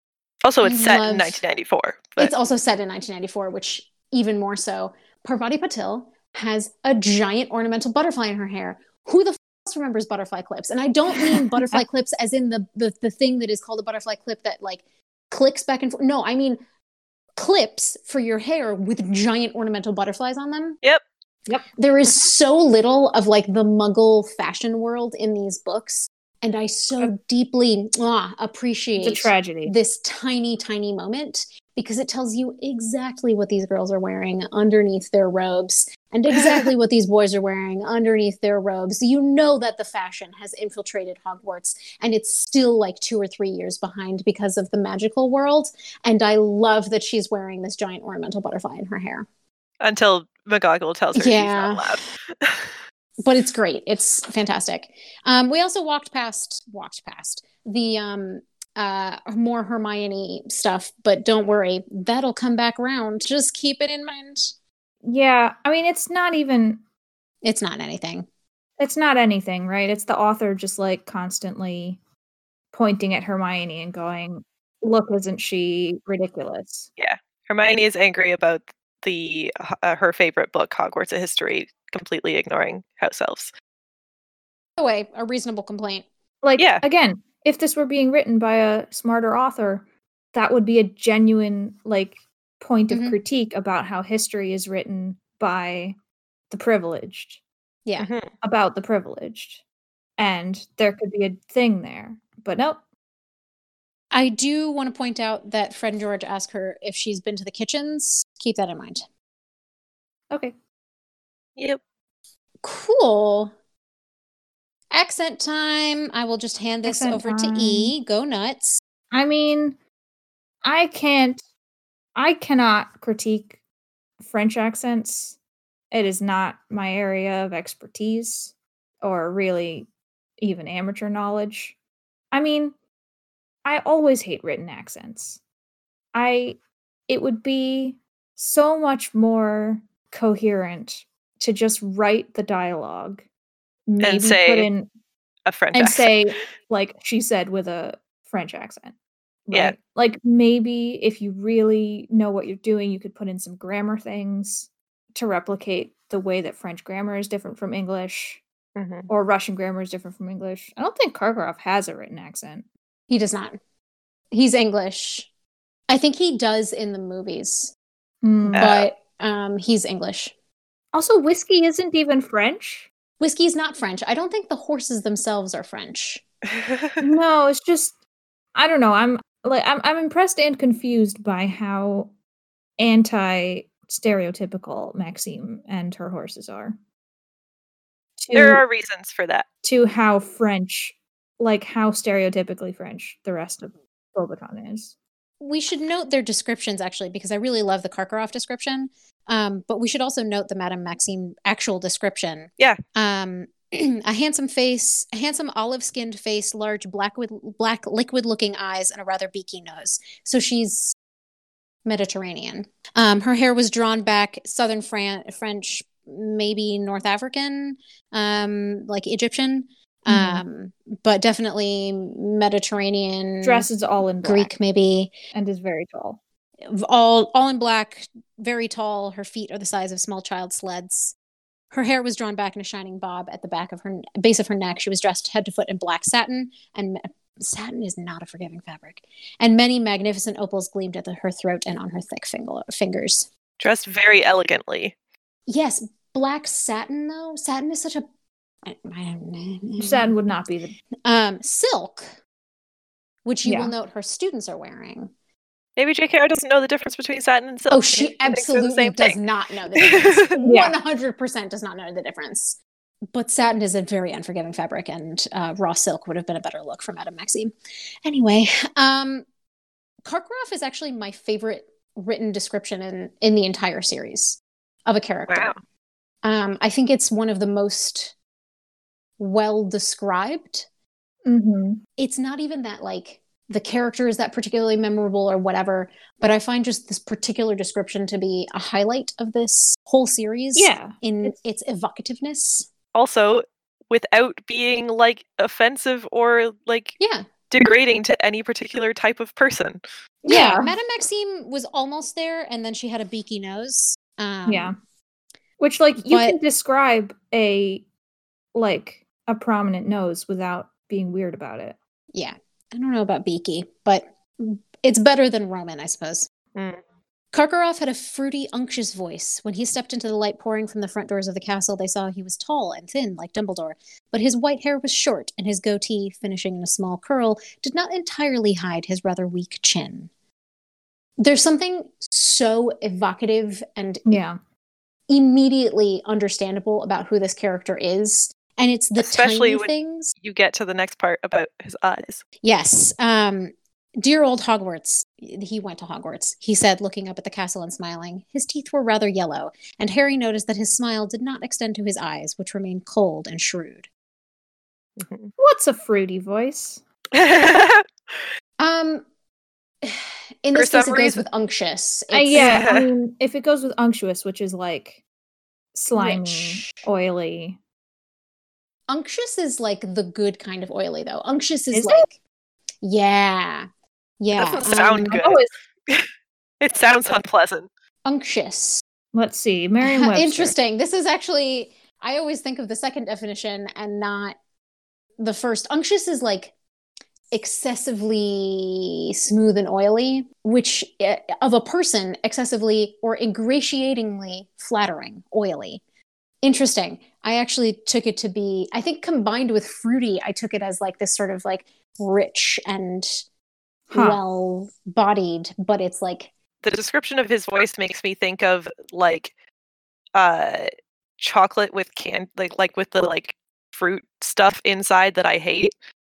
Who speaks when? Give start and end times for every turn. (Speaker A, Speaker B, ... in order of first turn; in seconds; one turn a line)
Speaker A: 0.4-2.3
Speaker B: 0.6-1.4
Speaker B: 2.2-16.6
Speaker C: 11.2-11.8
Speaker B: 17.4-20.8
Speaker C: 21.5-22.3
Speaker B: 21.8-49.3
Speaker C: 29.0-29.7
Speaker A: 49.8-52.7
Speaker B: 51.1-52.0
Speaker B: 53.2-64.5
Speaker C: 65.0-66.8
Speaker B: 67.4-68.3
Speaker C: 68.8-72.0
Speaker C: 72.7-76.9
Speaker A: 77.0-83.5
Speaker B: 84.8-86.0
Speaker C: 86.4-96.0
Speaker A: 86.6-86.8
Speaker B: 92.9-93.2
Speaker C: 96.5-97.4
Speaker A: 98.0-98.3
Speaker C: 98.4-99.6
Speaker C: 100.2-102.8
Speaker B: 104.1-109.0
Speaker B: 112.6-113.5
Speaker B: 114.9-118.8
Speaker C: 116.8-117.9
Speaker C: 119.1-119.8
Speaker C: 120.6-121.4
Speaker C: 122.2-123.6
Speaker C: 124.2-125.4
Speaker C: 125.9-129.9
Speaker C: 130.4-131.8
Speaker C: 132.3-132.7
Speaker C: 133.6-135.4
Speaker C: 136.1-143.2
Speaker C: 143.9-144.9
Speaker A: 144.0-144.7
Speaker A: 145.4-146.1
Speaker C: 145.7-148.9
Speaker C: 149.5-158.4
Speaker A: 158.8-159.1
Speaker C: 159.1-162.7
Speaker B: 163.1-163.6
Speaker B: 164.3-165.3
Speaker B: 165.9-167.7
Speaker C: 168.2-168.7
Speaker A: 168.5-168.9
Speaker B: 168.5-170.3
Speaker C: 170.9-172.9
Speaker B: 173.2-176.2
Speaker A: 176.5-177.0
Speaker C: 177.0-178.0
Speaker C: 178.5-182.1
Speaker C: 182.8-186.8
Speaker C: 188.2-188.6
Speaker A: 188.3-189.4
Speaker C: 189.6-194.9
Speaker B: 195.4-210.9
Speaker B: 211.8-223.7
Speaker C: 220.1-220.4
Speaker C: 223.4-224.5
Speaker B: 224.2-225.1
Speaker C: 225.3-226.2
Speaker B: 226.7-231.1
Speaker B: 231.7-243.3
Speaker A: 243.6-244.9
Speaker B: 245.5-248.0
Speaker B: 248.6-250.2
Speaker C: 249.8-250.8
Speaker B: 251.0-252.1
Speaker B: 253.2-255.1
Speaker C: 253.4-253.7
Speaker A: 255.8-259.2
Speaker B: 257.7-262.6
Speaker A: 259.7-260.4
Speaker C: 260.4-260.7
Speaker B: 263.1-269.2
Speaker B: 270.0-275.5
Speaker A: 275.3-275.6
Speaker B: 276.2-278.1
Speaker B: 279.2-280.7
Speaker C: 281.2-281.8
Speaker B: 282.0-292.7
Speaker C: 290.5-291.3
Speaker A: 292.9-296.9
Speaker B: 297.0-297.3
Speaker A: 297.5-299.8
Speaker B: 300.2-304.7
Speaker C: 300.3-300.7
Speaker C: 304.4-304.8
Speaker C: 305.6-307.8
Speaker B: 306.0-306.4
Speaker C: 308.5-311.8
Speaker B: 312.1-316.3
Speaker A: 316.5-316.8
Speaker B: 317.3-330.1
Speaker B: 331.2-334.2
Speaker C: 334.1-334.4
Speaker B: 335.1-340.1
Speaker A: 339.0-342.2
Speaker B: 342.4-353.9
Speaker A: 355.0-355.3
Speaker C: 355.4-356.8
Speaker A: 357.1-358.2
Speaker B: 358.6-359.1
Speaker B: 359.8-362.7
Speaker A: 360.5-361.2
Speaker C: 362.1-365.0
Speaker A: 362.3-362.9
Speaker C: 365.7-367.6
Speaker B: 365.9-366.9
Speaker B: 368.9-372.1
Speaker C: 371.7-372.1
Speaker B: 372.8-373.7
Speaker B: 374.2-375.2
Speaker A: 374.4-376.1
Speaker C: 375.2-375.5
Speaker A: 376.6-377.7
Speaker B: 378.0-378.8
Speaker C: 379.1-380.6
Speaker B: 379.8-384.4
Speaker B: 385.2-386.5
Speaker B: 387.3-395.8
Speaker B: 396.4-403.2
Speaker C: 403.9-404.2
Speaker B: 403.9-406.3
Speaker A: 406.6-409.3
Speaker A: 410.1-415.7